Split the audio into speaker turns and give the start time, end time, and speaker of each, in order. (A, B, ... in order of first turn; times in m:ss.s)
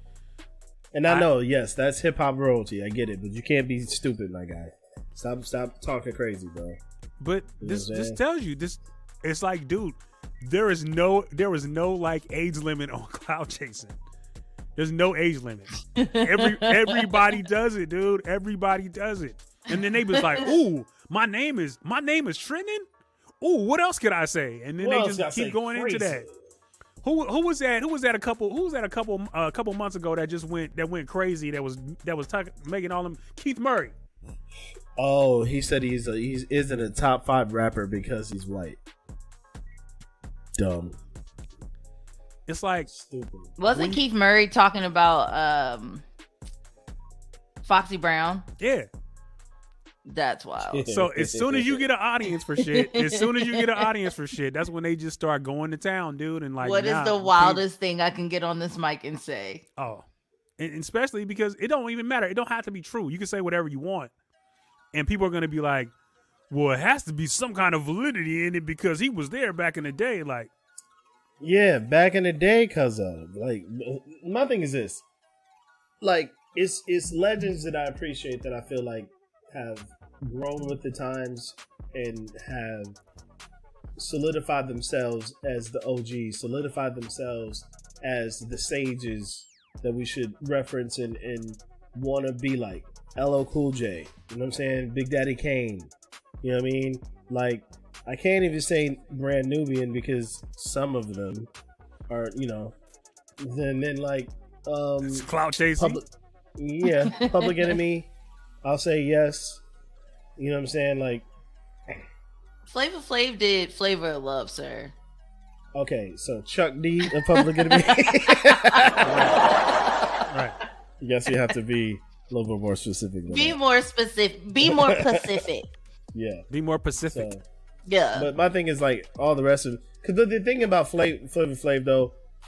0:00.9-0:06.8 A
0:07.2-0:14.0 B
0:07.6-0:08.2 A
0:14.8-0:22.8 B
0:15.9-0:17.0 C
0:20.2-0:20.4 C
0:23.4-0:26.3 B
0:24.8-0:26.4 A
0:27.0-0:34.0 B
0:35.0-0:38.8 A
0:40.6-0:41.0 A
0:42.5-0:42.9 B
0:42.9-0:43.6 A
0:43.6-0:46.0 C
0:43.7-0:44.0 B
0:47.6-0:48.5 C
0:48.6-0:48.9 B
0:50.0-0:50.9 C
0:50.6-0:51.9 A
0:50.9-0:57.6 B
0:52.6-0:53.9 C
0:56.6-0:59.6 C
0:59.8-1:00.0 B
1:00.6-1:04.1 B
1:04.9-1:05.9 B
1:06.5-1:10.5 B
1:11.4-1:15.0 A
1:16.0-1:23.0 A
1:24.0-1:41.5 A
1:42.1-1:42.8 A
1:43.4-1:48.1 A
1:45.0-1:46.0 B
1:46.9-1:47.7 C
1:48.6-1:49.6 A
1:50.4-1:51.3 A
1:52.7-1:54.9 C
1:55.8-1:59.3 A
1:57.3-2:00.2 C
1:59.0-1:59.4 B
2:00.3-2:00.6 B
2:01.0-2:03.6 A
2:03.3-2:05.7 C
2:04.6-2:05.4 A
2:06.1-2:06.5 A
2:06.5-2:07.3 B
2:07.1-2:07.4 A
2:07.9-2:08.3 C
2:08.2-2:12.1 A